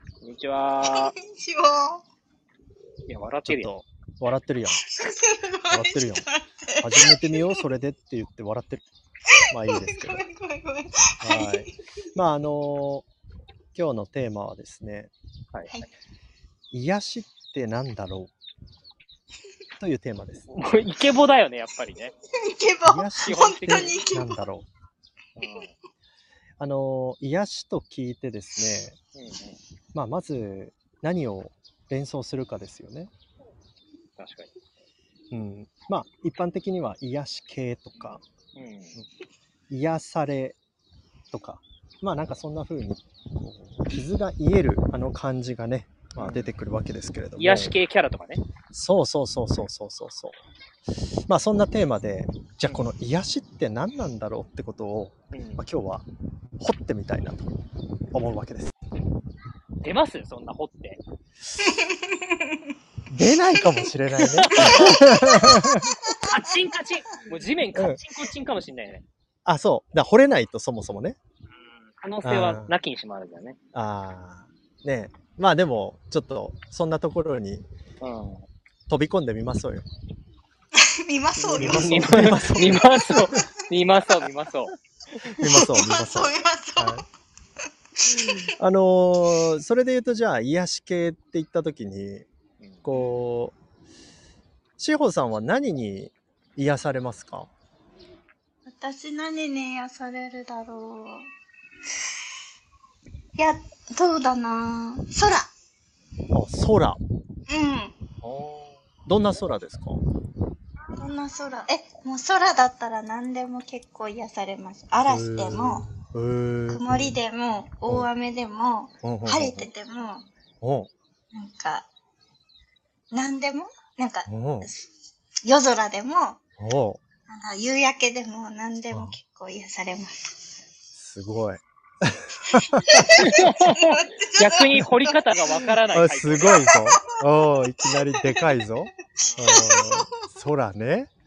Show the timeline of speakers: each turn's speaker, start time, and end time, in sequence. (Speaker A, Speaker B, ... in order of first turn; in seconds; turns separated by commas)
Speaker A: 0.2-1.1, Speaker B: 0.8-2.0, Speaker A: 3.1-3.7, Speaker C: 3.5-4.8, Speaker B: 4.8-7.6, Speaker C: 5.7-6.2, Speaker C: 6.8-8.8, Speaker C: 9.5-10.2, Speaker B: 9.7-11.7, Speaker C: 11.2-13.1, Speaker C: 13.7-15.1, Speaker C: 16.7-18.3, Speaker C: 19.8-20.5, Speaker A: 20.5-22.1, Speaker B: 22.3-24.4, Speaker C: 22.8-24.7, Speaker A: 23.3-24.0, Speaker A: 25.4-25.7, Speaker C: 26.6-28.9, Speaker A: 29.1-29.6, Speaker C: 29.9-33.1, Speaker A: 34.2-34.5, Speaker C: 35.3-38.2, Speaker A: 38.5-38.9, Speaker C: 39.7-40.6, Speaker C: 41.3-47.8, Speaker A: 46.2-46.5, Speaker A: 47.4-48.4, Speaker C: 48.7-50.4, Speaker C: 51.3-56.0, Speaker A: 55.3-55.6, Speaker C: 56.6-57.5, Speaker C: 58.1-58.7, Speaker A: 59.8-61.0, Speaker B: 61.7-62.4, Speaker C: 63.1-65.9, Speaker A: 64.4-65.0, Speaker B: 64.6-66.5, Speaker A: 66.3-69.0, Speaker C: 67.7-68.0, Speaker C: 69.5-71.2, Speaker A: 72.0-73.6, Speaker C: 72.2-72.7, Speaker C: 73.7-77.7, Speaker A: 78.0-78.5, Speaker C: 78.9-79.8, Speaker B: 80.8-82.7, Speaker C: 81.5-83.4, Speaker A: 81.5-84.7, Speaker C: 85.3-87.0, Speaker B: 85.4-87.0, Speaker C: 88.2-92.2, Speaker A: 92.6-92.8, Speaker C: 92.8-93.5, Speaker B: 92.9-93.2, Speaker C: 94.8-97.5, Speaker B: 98.7-101.3, Speaker B: 103.3-105.5, Speaker C: 106.3-107.0, Speaker B: 107.5-107.9, Speaker C: 108.2-110.0, Speaker B: 111.0-115.9, Speaker C: 115.0-117.2, Speaker B: 116.7-120.3, Speaker C: 119.0-119.7, Speaker C: 120.6-120.9, Speaker B: 121.3-121.9, Speaker B: 123.1-124.8, Speaker C: 124.3-124.7, Speaker B: 125.4-126.4, Speaker C: 126.6-127.0, Speaker B: 127.3-130.3, Speaker C: 128.9-129.2, Speaker C: 130.9-133.4, Speaker B: 132.5-135.2, Speaker A: 133.1-136.5, Speaker C: 135.9-141.1, Speaker B: 136.5-137.1, Speaker B: 138.1-138.4, Speaker B: 139.3-140.1